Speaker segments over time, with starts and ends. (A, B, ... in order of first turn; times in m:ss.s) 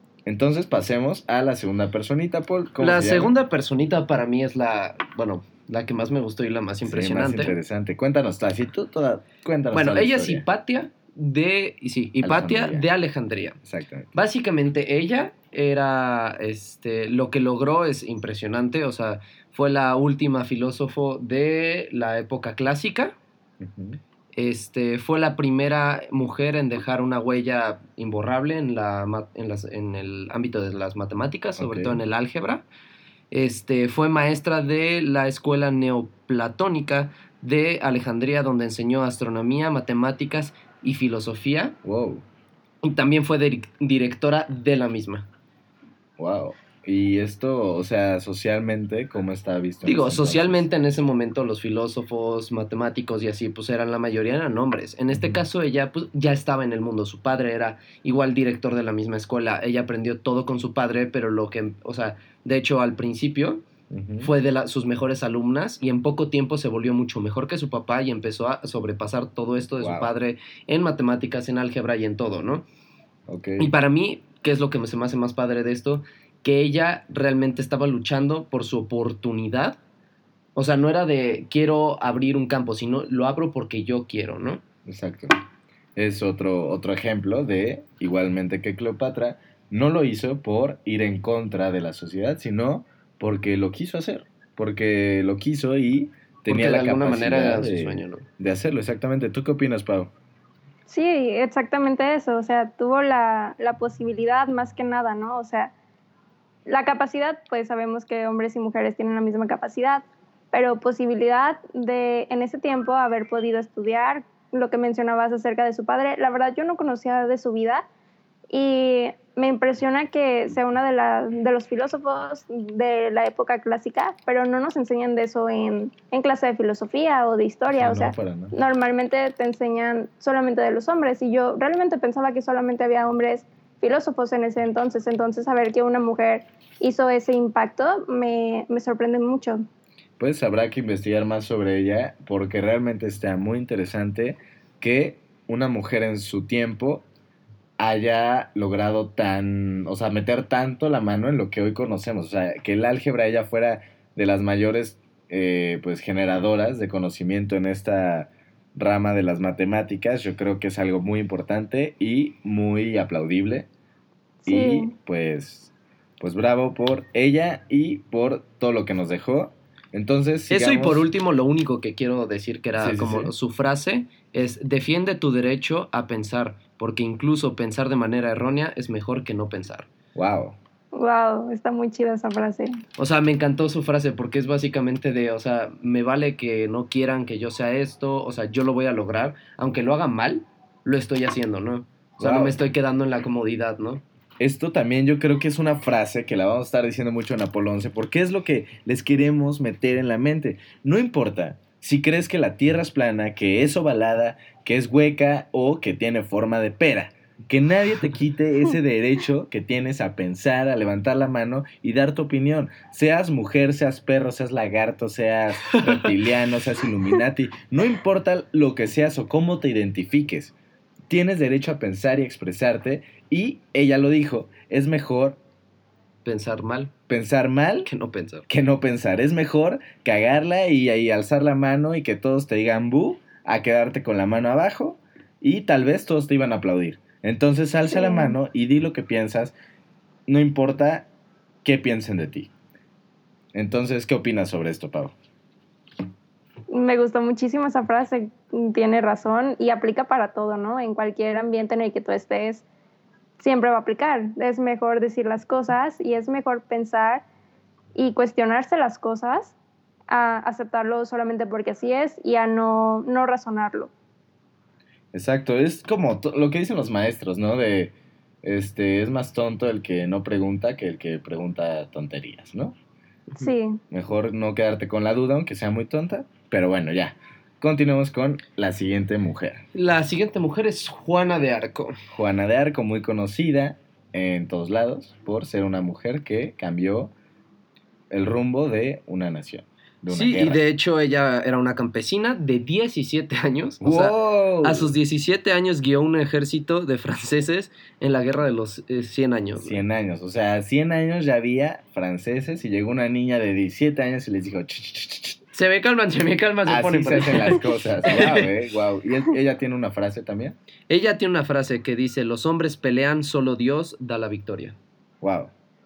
0:00.3-0:03.3 A
0:02.8-0:07.6 B
0:06.8-0:10.4 A
0:09.7-0:13.6 B
0:12.2-0:12.9 A
0:13.6-0:14.1 A
0:14.1-0:23.2 B
0:23.6-0:24.0 A
0:24.3-0:32.6 B
0:31.6-0:32.0 A
0:33.3-0:41.8 B
0:41.8-0:42.2 A
0:42.8-0:45.3 B
0:46.2-0:50.7 A
0:49.8-1:03.6 B
0:55.1-0:55.4 A
1:03.9-1:04.3 A
1:04.2-1:12.6 B
1:09.7-1:10.1 A
1:13.3-1:13.7 A
1:13.6-1:19.8 B
1:20.6-1:24.6 B
1:24.8-1:25.3 A
1:26.0-1:40.1 A
1:36.5-1:38.2 B
1:40.9-1:45.7 C
1:46.7-1:57.8 C
1:58.5-2:19.6 C
2:07.7-2:08.5 A
2:20.2-2:27.0 A
2:27.8-2:43.7 A
2:44.4-2:44.9 C
2:44.4-2:51.0 A
2:50.5-2:59.9 B
2:52.8-2:53.3 A
3:00.2-3:00.6 A
3:00.9-3:02.8 C
3:03.0-3:14.0 B
3:12.2-3:12.6 A
3:14.4-3:40.5 A
3:35.7-3:36.1 B
3:41.1-3:45.4 A
3:46.2-3:46.9 B
3:47.1-3:47.9 A
3:47.8-3:48.4 B
3:48.5-3:59.6 A
3:57.9-3:58.4 C
4:00.3-4:01.1 A
4:01.6-4:02.5 A
4:03.5-4:05.1 A
4:06.7-4:12.6 C
4:13.4-4:17.2 C
4:17.9-4:19.6 C
4:20.1-4:23.9 C
4:25.1-4:32.8 A
4:33.4-4:33.8 C
4:33.9-4:39.6 A
4:39.7-4:42.0 B
4:42.1-4:47.1 A
4:48.1-4:50.6 A
4:50.1-4:59.8 B
4:53.8-4:54.9 A
4:59.6-5:05.4 A
5:05.5-5:08.5 B
5:06.7-5:10.6 A
5:10.9-5:14.8 B
5:15.2-5:15.5 A